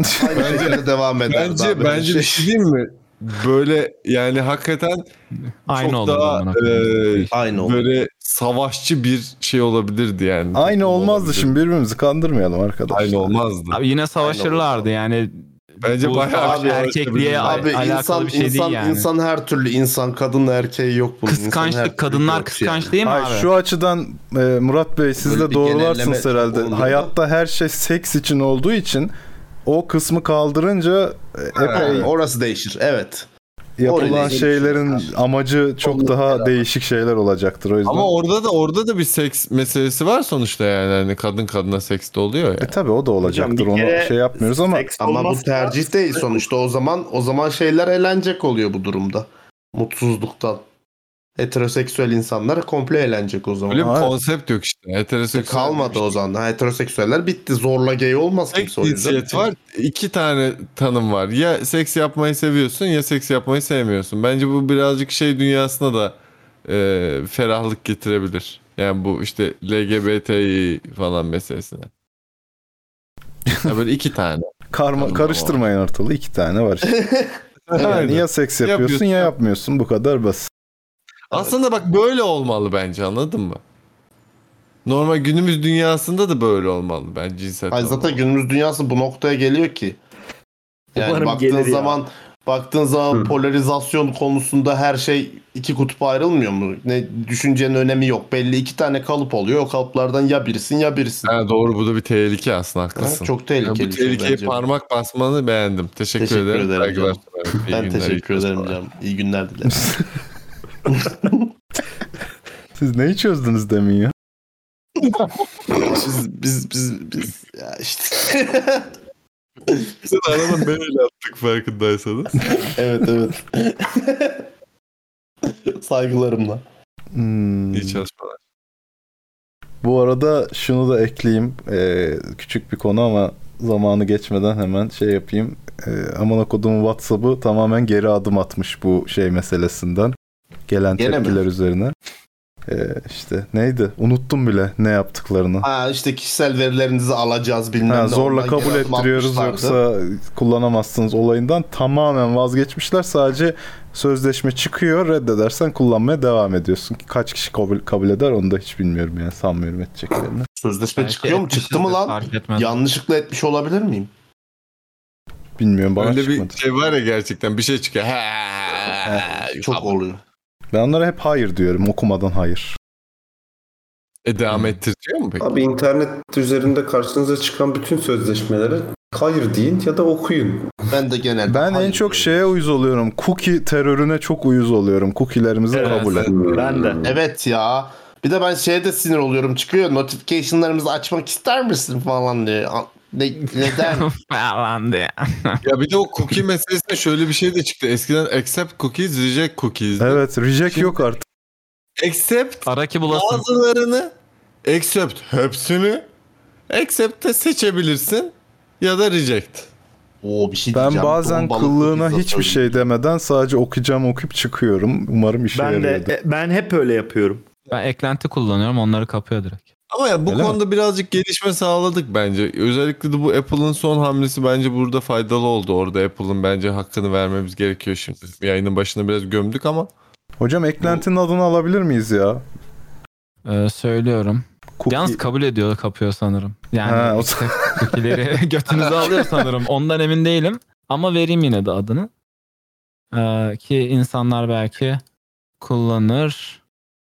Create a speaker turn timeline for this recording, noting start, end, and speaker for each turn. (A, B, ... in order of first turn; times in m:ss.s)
0:00.1-0:02.5 A
0:00.2-0:00.6 B
0:00.4-0:05.1 C
0:05.7-0:07.3 D
0:05.8-0:11.6 C
0:07.3-0:07.8 A
0:10.6-0:13.4 B
0:12.9-0:13.8 C
0:13.7-0:19.1 D
0:14.2-0:14.9 A
0:15.8-0:17.7 C
0:16.4-0:16.8 A
0:17.4-0:22.9 A
0:21.3-0:23.5 D
0:23.0-0:29.1 B
0:25.2-0:27.1 A
0:29.7-0:32.1 B
0:31.6-0:32.1 C
0:31.7-0:33.3 A
0:33.8-0:38.1 B
0:33.8-0:35.1 A
0:35.9-0:36.1 A
0:37.9-0:42.7 C
0:42.6-0:44.9 B
0:43.2-0:46.4 E
0:45.0-0:50.6 A
0:51.4-0:53.9 A
0:53.7-0:56.2 C
0:53.8-0:54.1 B
0:55.3-0:59.4 A
0:58.5-1:11.9 C
1:13.6-1:15.6 C
1:14.7-1:17.0 B
1:16.9-1:18.1 A
1:17.7-1:19.3 C
1:17.8-1:20.5 B
1:21.3-1:23.6 C
1:24.9-1:28.2 C
1:27.7-1:30.0 A
1:31.0-1:32.0 E
1:31.0-1:41.4 A
1:41.2-1:48.7 C
1:43.0-1:44.7 A
1:46.2-1:47.2 A
1:47.7-1:50.0 A
1:49.7-1:50.0 B
1:50.9-1:51.5 A
1:52.8-1:54.1 B
1:55.7-1:58.9 A
2:00.0-2:02.4 C
2:02.5-2:04.4 A
2:05.4-2:06.6 A
2:07.1-2:08.0 B
2:07.7-2:08.4 C
2:09.8-2:20.2 B
2:20.7-2:21.9 B
2:21.0-2:21.4 A
2:22.7-2:25.7 B
2:25.6-2:29.8 A
2:27.9-2:40.5 B
2:40.6-2:44.1 A
2:41.0-2:42.8 D
2:45.6-2:46.6 B
2:46.0-2:49.9 C
2:49.1-2:50.2 A
2:50.7-2:52.8 B
2:54.3-2:55.4 C
2:55.4-3:00.8 F
3:00.9-3:02.6 A
3:01.5-3:06.3 B
3:05.7-3:07.0 E
3:05.8-3:06.3 D
3:06.3-3:07.2 F
3:07.0-3:14.1 A
3:13.6-3:15.6 D
3:15.6-3:20.2 C
3:20.0-3:21.2 B
3:22.0-3:24.1 C
3:22.7-3:23.4 D
3:24.6-3:26.1 C
3:26.7-3:29.7 C
3:30.2-3:32.8 A
3:30.7-3:36.1 B
3:35.5-3:37.4 E
3:37.7-3:39.7 D
3:39.9-3:49.9 C
3:40.3-3:40.6 B
3:50.4-3:52.4 B
3:53.4-4:02.1 D
3:54.8-3:55.2 B
3:56.8-3:58.2 B
4:03.1-4:05.0 D
4:05.6-4:06.6 D